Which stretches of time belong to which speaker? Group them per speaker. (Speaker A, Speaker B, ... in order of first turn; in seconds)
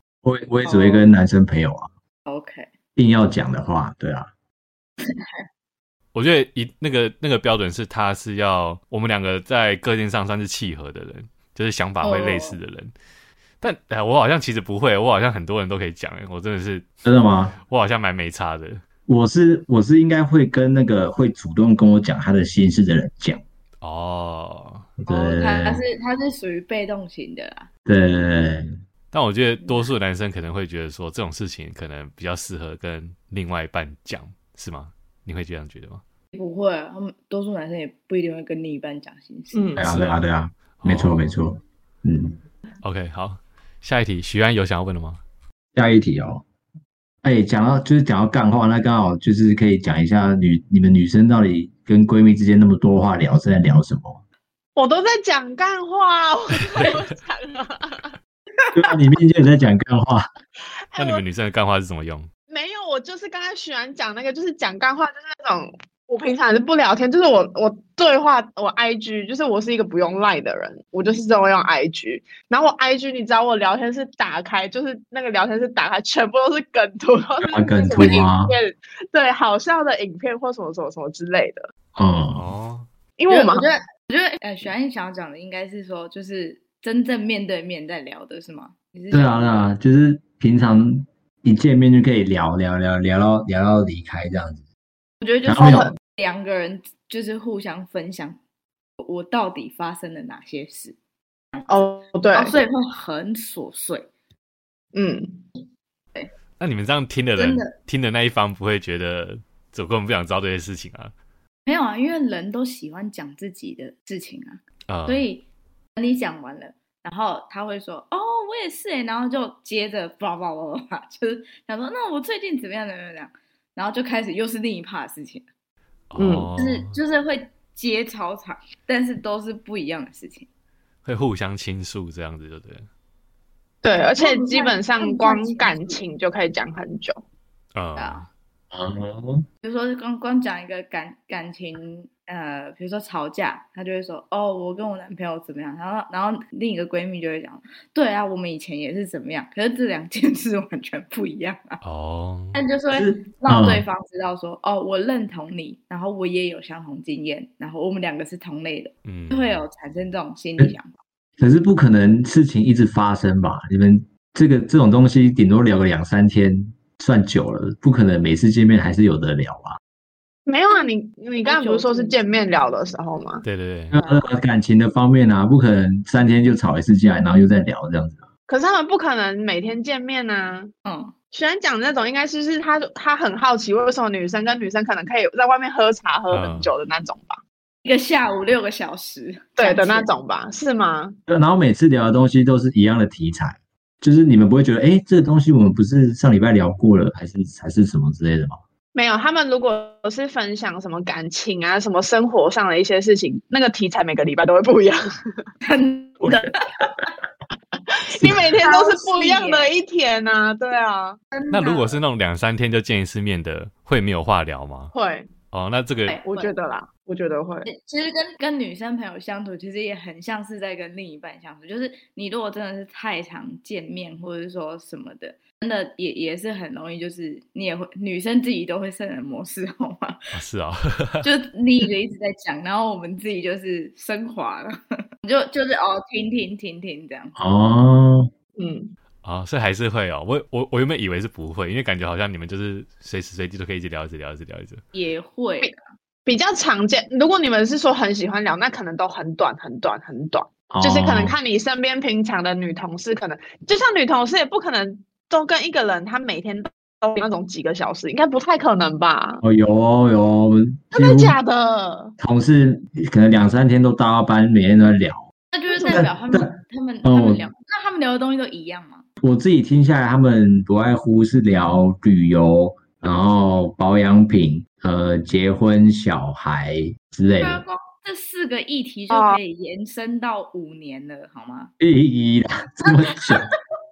Speaker A: 0.2-1.9, 3.0-4.3, 17.0-17.6, 19.1-23.4, 25.0-25.8, 27.9-28.7, 39.8-42.4, 45.7-46.4, 47.2-54.2, 58.7-60.2, 77.4-78.5, 82.0-82.5, 89.1-94.6, 95.4-95.9, 138.7-139.4, 152.9-153.8, 161.4-169.8, 173.9-178.2, 191.3-198.6, 206.2-206.9, 208.2-208.4, 237.3-238.3, 250.7-251.4, 259.4-261.4, 262.2-265.3, 265.9-267.5, 269.2-277.6, 281.8-283.5
Speaker B: 0.6-1.1, 2.2-2.7, 5.1-5.4, 12.0-12.6, 25.1-27.7, 29.6-29.9, 36.3-39.8, 77.9-78.3, 83.3-89.6, 95.2-98.4, 99.0-100.9, 102.3-104.1, 107.4-107.7, 111.7-115.4, 116.0-125.4, 126.6-130.5, 134.2-136.0, 137.9-138.2, 139.6-151.8, 152.5-160.9, 171.4-172.3, 180.8-181.1, 187.8-190.1, 205.6-206.5, 208.6-209.7, 211.3-212.0, 216.1-216.5, 217.6-230.2, 231.2-237.3, 244.9-245.8, 265.5-269.0, 277.4-281.7
Speaker C: 6.1-12.9, 13.6-16.9, 17.7-18.8, 23.8-24.9, 29.1-36.0, 40.8-41.2, 42.8-45.2, 61.0-62.3, 82.3-82.9, 106.6-111.1, 114.9-115.3, 126.1-127.0, 131.0-132.8, 137.7-138.3, 151.8-152.6, 159.0-159.6, 173.4-173.9, 186.3-186.7, 211.5-214.9, 215.5-216.2, 230.3-231.2, 239.2-244.8
Speaker D: 39.5-39.9, 54.8-58.1, 60.9-61.2, 62.5-81.7, 83.2-83.7, 95.6-95.9, 101.7-102.5, 104.9-105.5, 126.2-126.5, 133.8-137.2, 170.4-173.4, 178.5-180.7, 181.3-187.4, 189.6-191.2, 198.9-205.4, 208.1-211.2, 214.9-215.3, 216.2-217.7, 238.6-238.9, 246.2-259.4, 260.9-262.1, 265.7-266.1, 279.1-279.4